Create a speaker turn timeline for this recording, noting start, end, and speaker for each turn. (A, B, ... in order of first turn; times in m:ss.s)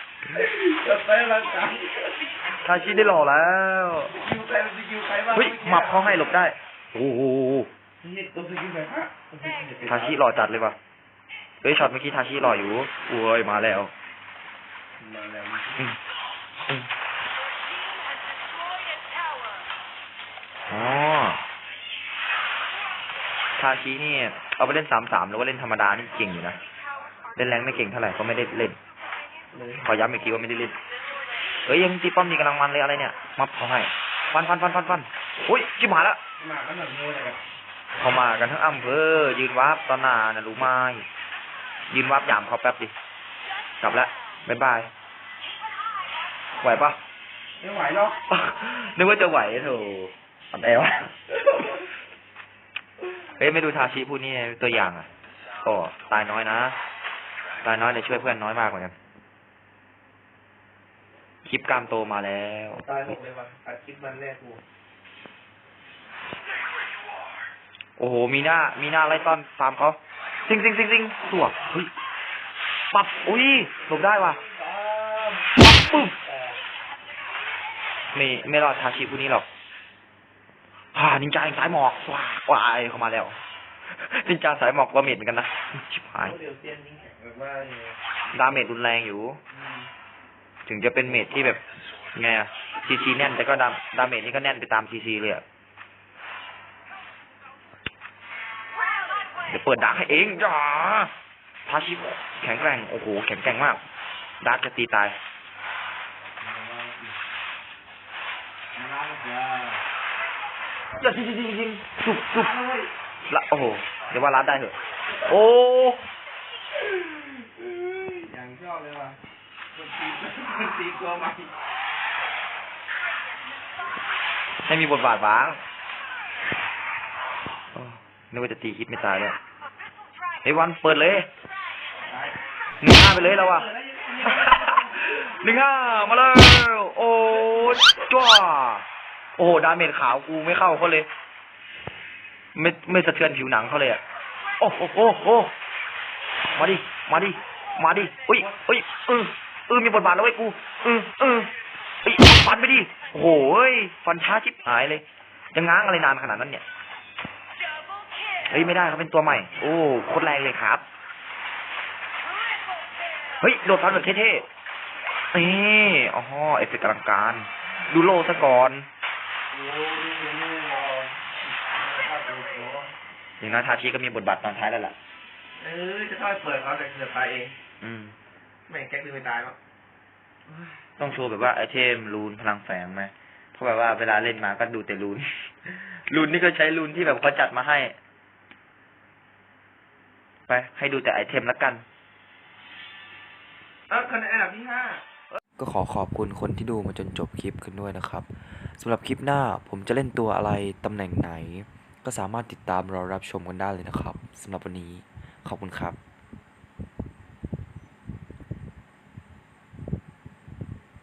0:00.3-0:02.4 A
0:02.6-0:04.1 B
0:04.1-0:06.4 A
0:05.3-0:07.7 B
0:08.0-0:10.2 A
0:09.9-0:10.8 B
0:11.6-0:13.9 B
0:15.0-0:15.9 A
0:20.7-0:21.4 B
0:23.6-0:26.6 B
0:27.4-0:28.8 B
0:29.5-0:30.0 A
0:29.8-0:30.8 B
0:31.7-0:36.2 B
0:36.4-0:37.4 A
0:38.0-0:41.0 B
0:41.9-0:42.9 B
0:43.8-0:44.9 B
0:46.6-0:47.0 B
0:47.6-0:48.2 A
0:48.3-0:51.1 B
0:53.4-0:55.1 B
0:55.6-0:56.8 B
0:57.6-0:58.9 B
1:01.4-1:02.8 B
1:02.8-1:04.6 A
1:08.0-1:11.9 B
1:12.9-1:14.4 B
1:13.9-1:16.6 A
1:15.6-1:16.1 B
1:18.1-1:19.5 B
1:20.9-1:23.4 B
1:23.9-1:26.4 B
1:26.2-1:28.0 A
1:28.3-1:29.4 B
1:29.5-1:29.9 A
1:30.7-1:31.6 B
1:32.1-1:35.4 B
1:39.5-1:41.1 B
1:41.7-1:43.8 B
1:44.4-1:45.2 B
1:46.4-1:47.2 A
1:48.8-1:49.8 A
1:51.0-1:52.5 B
1:52.3-1:52.9 A
1:53.3-1:56.0 B
1:57.0-1:59.2 A
1:59.7-2:01.5 A
2:04.6-2:05.6 B
2:07.7-2:09.4 B
2:10.4-2:11.3 B
2:12.0-2:12.4 A
2:12.8-2:13.7 B
2:13.0-2:15.1 A
2:14.2-2:18.8 B
2:19.4-2:21.1 B
2:22.6-2:24.0 B
2:24.6-2:25.5 B
2:26.6-2:31.5 B
2:32.0-2:36.6 B
2:38.5-2:40.8 B
2:43.4-2:44.4 B
2:45.3-2:48.9 B
2:49.5-2:52.9 A
2:53.4-2:55.0 B
2:55.6-2:57.6 A
2:57.8-2:58.2 B
2:58.7-2:59.6 A
3:01.0-3:08.0 B
3:10.5-3:11.8 B
3:13.9-3:15.0 A
3:15.6-3:26.0 C